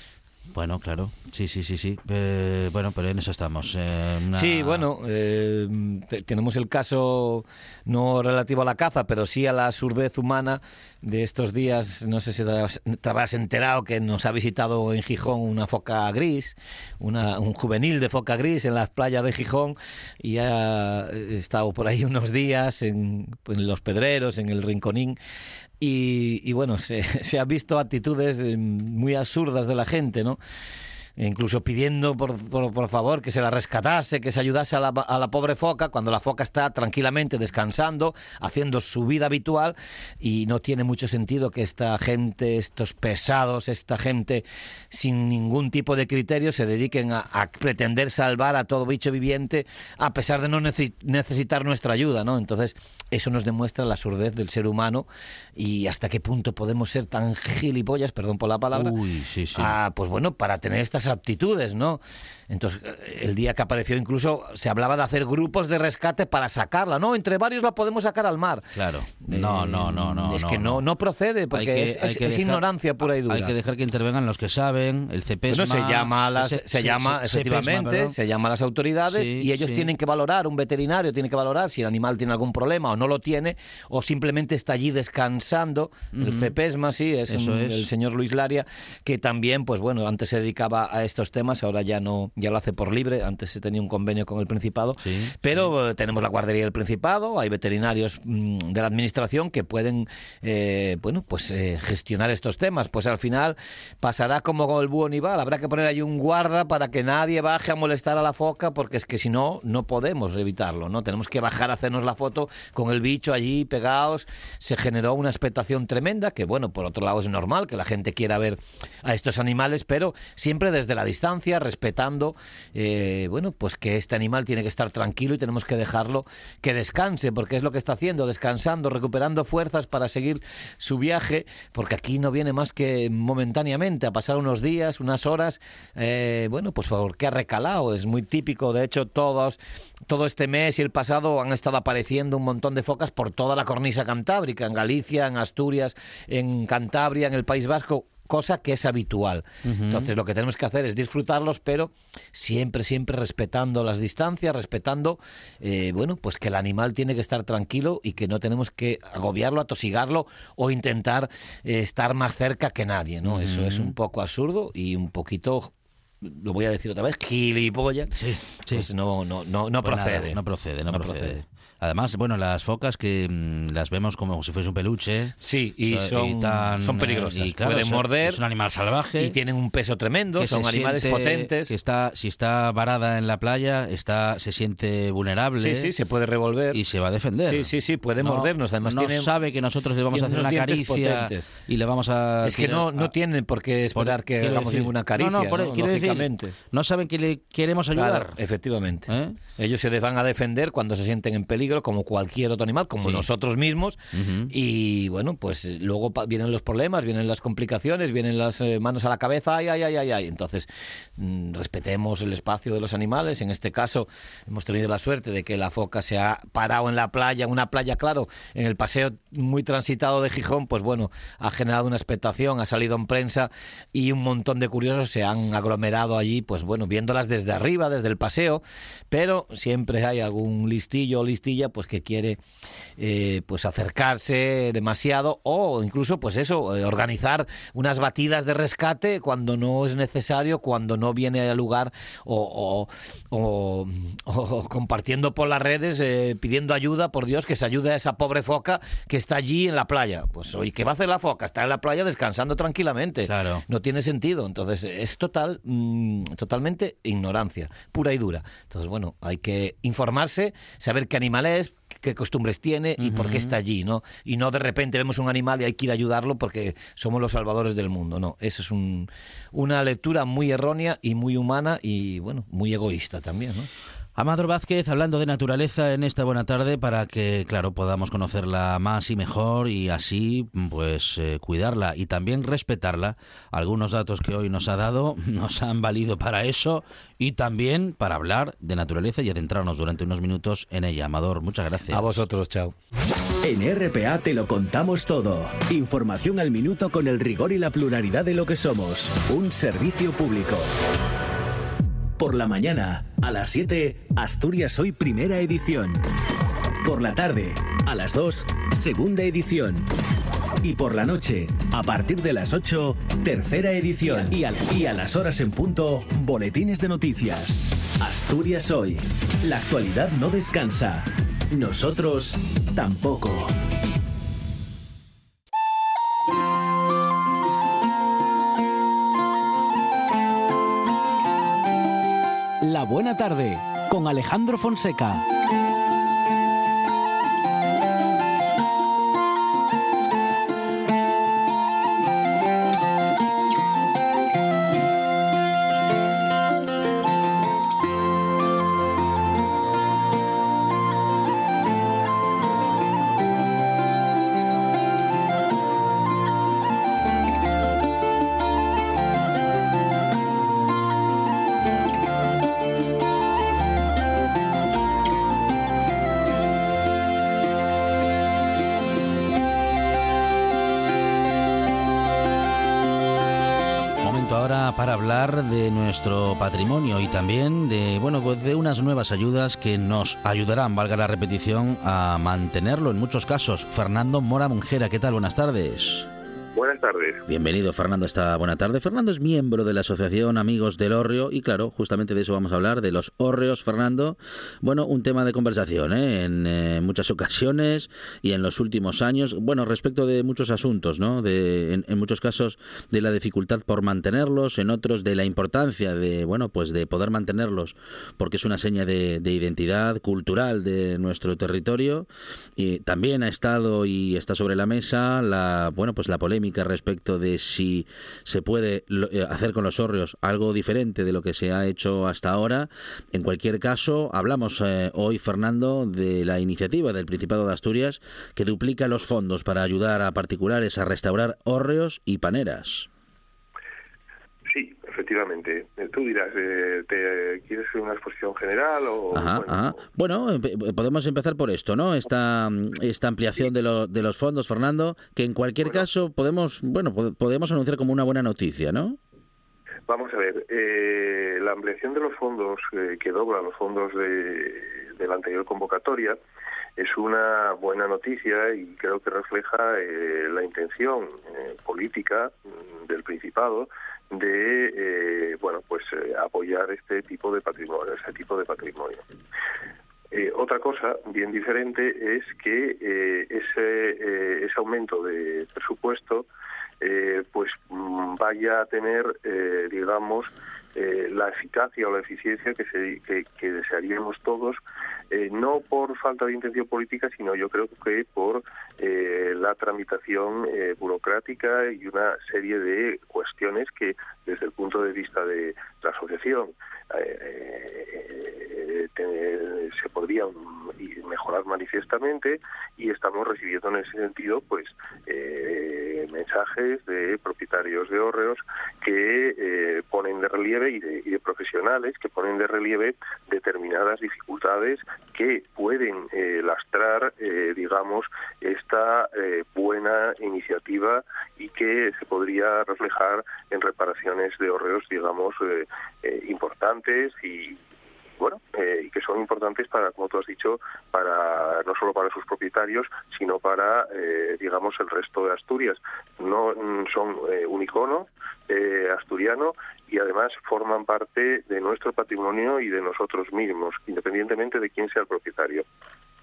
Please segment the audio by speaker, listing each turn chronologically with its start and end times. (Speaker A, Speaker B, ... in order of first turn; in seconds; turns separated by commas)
Speaker A: 0.5-4.8, Speaker B: 4.3-25.2, Speaker B: 25.8-30.4, Speaker B: 31.2-59.0, Speaker A: 58.7-59.8, Speaker B: 59.5-68.7, Speaker A: 68.8-70.8, Speaker B: 69.2-73.5, Speaker A: 71.5-72.6, Speaker A: 73.2-78.2, Speaker B: 75.5-168.1, Speaker A: 79.1-79.9, Speaker A: 86.1-86.5, Speaker A: 87.3-87.9, Speaker A: 95.0-95.7, Speaker A: 149.6-150.1, Speaker A: 163.2-163.9, Speaker A: 168.1-168.9, Speaker B: 168.7-171.4, Speaker A: 169.8-179.4, Speaker B: 175.4-178.4, Speaker B: 179.2-181.7, Speaker A: 180.4-185.9, Speaker B: 185.5-186.8, Speaker A: 186.7-193.1, Speaker B: 187.4-189.3, Speaker B: 190.1-191.5, Speaker B: 192.4-196.6, Speaker A: 193.9-198.4, Speaker B: 197.9-232.4, Speaker A: 199.1-199.4, Speaker A: 204.1-204.5, Speaker B: 233.0-273.7, Speaker A: 253.3-253.6, Speaker A: 263.0-263.6, Speaker A: 274.2-292.1, Speaker B: 291.9-292.8, Speaker C: 293.4-300.7, Speaker C: 302.2-306.0, Speaker C: 306.8-309.9, Speaker C: 310.6-323.5, Speaker C: 332.6-335.2, Speaker A: 374.0-386.1, Speaker D: 386.6-387.2, Speaker A: 387.3-432.9, Speaker D: 434.5-439.9, Speaker A: 439.1-449.0, Speaker D: 445.6-445.9, Speaker D: 449.9-456.2, Speaker D: 456.8-469.0, Speaker D: 470.1-476.2, Speaker D: 476.8-484.6, Speaker D: 485.1-527.6, Speaker D: 528.2-545.6